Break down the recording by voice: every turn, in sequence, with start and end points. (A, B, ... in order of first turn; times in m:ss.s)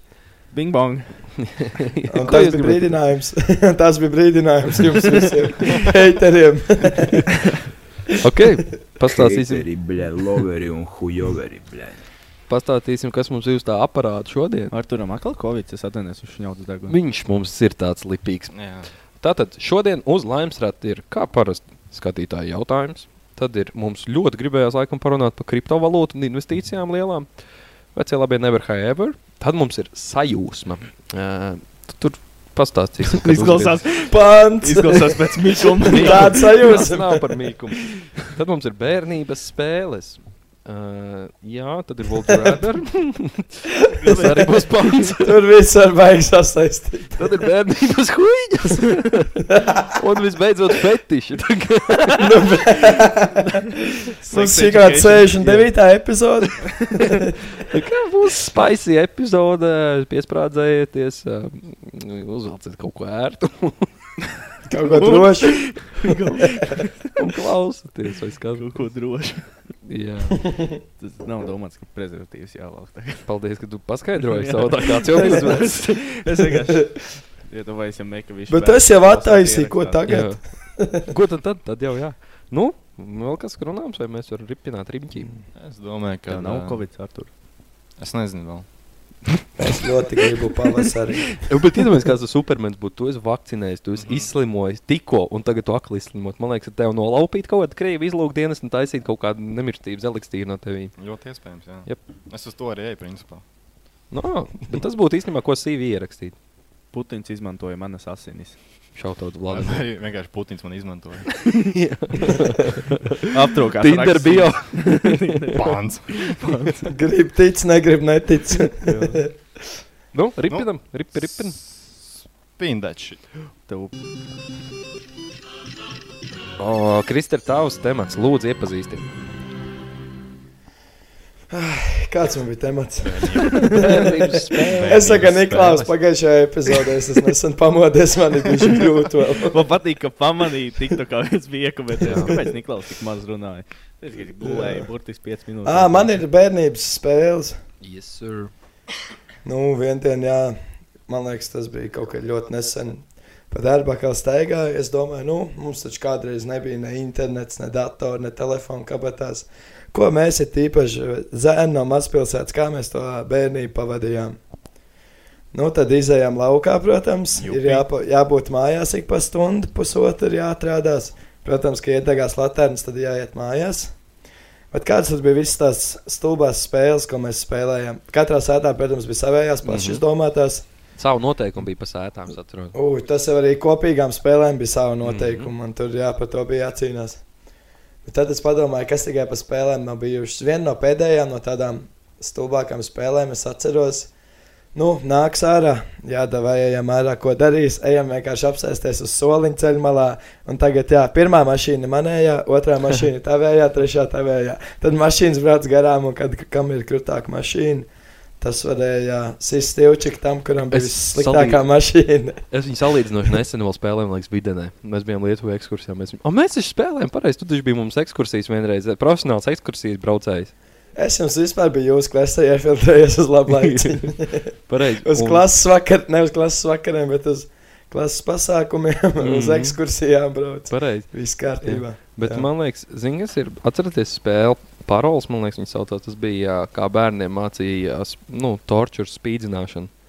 0:00.5-0:01.3 A
0:01.4-0:02.9 B
0:02.1-0:07.3 C
0:08.2-0:09.7 B
0:09.1-0:12.0 D
0:12.5-0:14.7 B
0:14.7-0:17.0 A
0:16.9-0:18.5 B
0:18.5-0:18.9 E
0:19.2-0:27.3 B
0:28.0-0:33.8 B
0:33.1-0:36.5 A
0:34.1-0:37.3 C
0:35.9-0:45.3 B
0:44.0-0:45.1 A
0:45.2-0:47.4 C
0:47.2-0:49.4 B
0:49.5-0:49.9 C
0:49.9-0:52.3 B
0:52.2-0:57.3 C
0:54.2-0:55.7 A
0:57.7-1:03.9 B
1:04.7-1:05.8 C
1:04.9-1:07.1 A
1:07.2-1:08.8 B
1:08.6-1:09.7 A
1:09.9-1:10.4 B
1:11.0-1:13.3 A
1:13.3-1:15.8 B
1:14.2-1:20.0 A
1:18.5-1:21.1 C
1:20.1-1:25.3 B
1:25.6-1:26.8 E
1:26.3-1:27.3 A
1:28.0-1:28.7 E
1:29.6-1:31.4 C
1:31.5-1:41.0 B
1:34.0-1:34.3 E
1:41.0-1:43.4 E
1:44.1-1:46.4 B
1:46.9-1:48.6 A
1:49.0-1:49.8 B
1:49.5-1:51.6 E
1:51.6-1:53.2 B
1:53.3-1:56.9 A
1:53.8-1:55.6 B
1:55.6-1:56.3 E
1:56.9-1:59.3 C
1:58.9-1:59.2 A
2:00.1-2:01.6 B
2:00.5-2:03.2 E
2:03.7-2:03.9 A
2:06.6-2:09.0 B
2:11.5-2:19.6 C
2:13.0-2:13.9 E
2:13.8-2:15.1 B
2:14.7-2:15.9 E
2:19.5-2:26.2 A
2:22.0-2:22.3 B
2:24.4-2:24.9 C
2:25.6-2:27.6 C
2:27.8-2:28.5 B
2:29.4-2:30.6 C
2:31.1-2:44.4 C
2:45.5-2:53.9 C
2:47.4-2:47.8 A
2:54.7-3:00.6 C
2:59.6-3:00.0 B
3:01.0-3:02.8 B
3:02.7-3:07.2 C
3:05.0-3:05.5 B
3:08.0-3:14.1 C
3:14.7-3:27.9 C
3:28.4-3:32.4 C
3:30.7-3:31.6 B
3:32.5-3:40.5 B
3:41.0-3:52.5 C
3:43.6-3:44.1 B
3:44.7-3:45.5 B
3:49.2-3:49.8 B
3:50.7-3:59.9 B